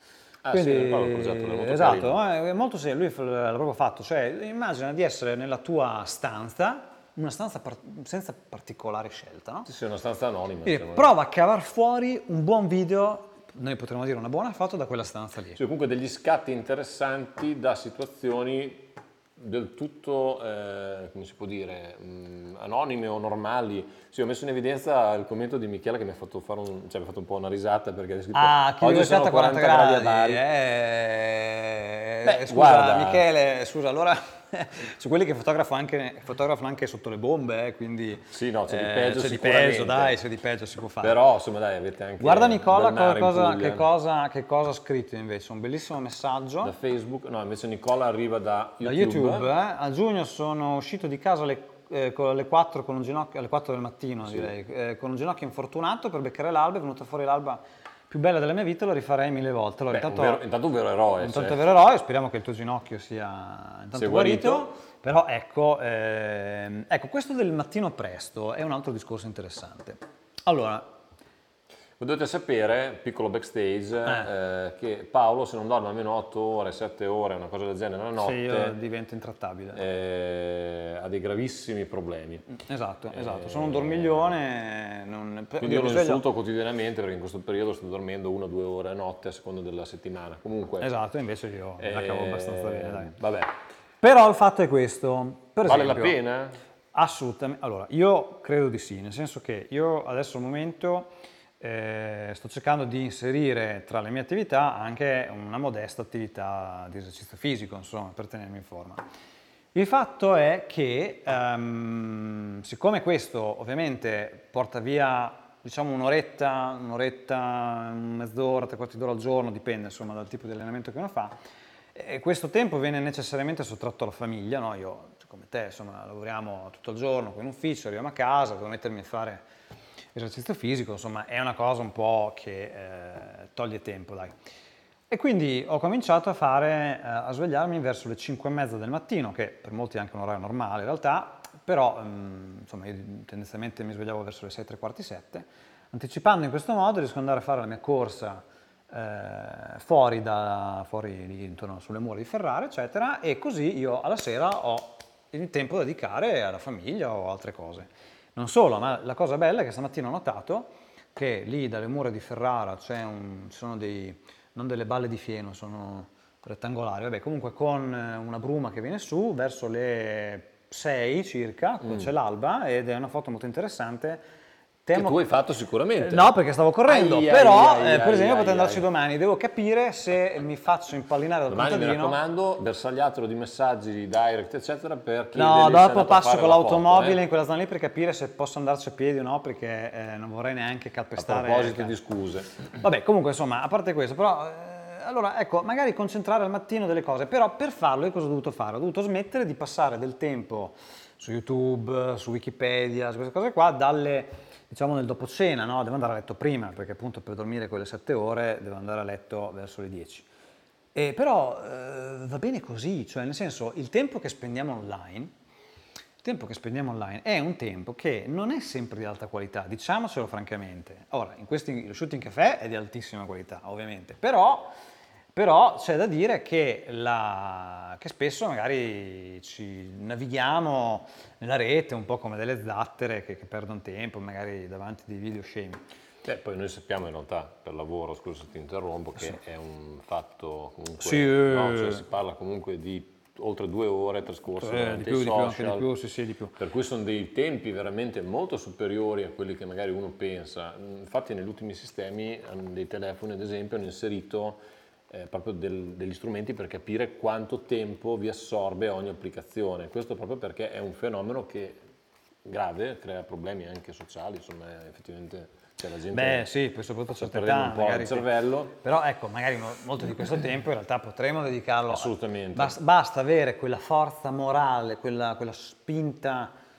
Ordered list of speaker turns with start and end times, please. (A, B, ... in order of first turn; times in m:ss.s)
0:00.4-0:02.2 A
0:00.5-0:09.7 B
0:09.7-0:11.1 A
0:10.6-0:15.6 B
0:15.6-0:30.4 A
0:28.3-0:41.1 B
0:32.2-0:33.2 A
0:38.3-0:40.2 A
0:41.0-0:43.8 A
0:42.2-0:46.7 B
0:46.6-0:49.5 A
0:48.8-1:00.4 B
0:59.9-1:01.6 A
1:01.2-1:10.9 B
1:03.9-1:04.7 A
1:12.0-1:18.8 A
1:18.2-1:19.8 B
1:19.7-1:22.4 A
1:22.5-1:26.2 B
1:23.1-1:24.3 A
1:25.6-1:30.9 A
1:30.8-1:33.1 B
1:31.8-1:33.5 A
1:34.0-1:36.2 B
1:35.6-1:36.6 A
1:36.9-1:49.0 B
1:49.7-2:01.4 B
2:01.9-2:09.4 B
2:10.1-2:14.3 B
2:15.1-2:54.2 B
2:54.8-2:55.2 B
2:54.9-2:56.3 A
2:56.0-3:02.2 B
2:56.8-2:58.9 A
3:01.5-3:07.2 A
3:05.3-3:11.9 B
3:11.2-3:12.5 A
3:12.8-3:30.3 B
3:30.9-3:35.3 B
3:36.2-3:44.7 B
3:45.3-3:55.8 B
3:56.2-4:05.9 A
4:01.0-4:02.0 B
4:04.6-4:06.6 B
4:06.6-4:21.8 A
4:22.4-4:26.4 A
4:26.1-4:36.5 B
4:27.2-4:28.7 A
4:31.9-4:32.8 A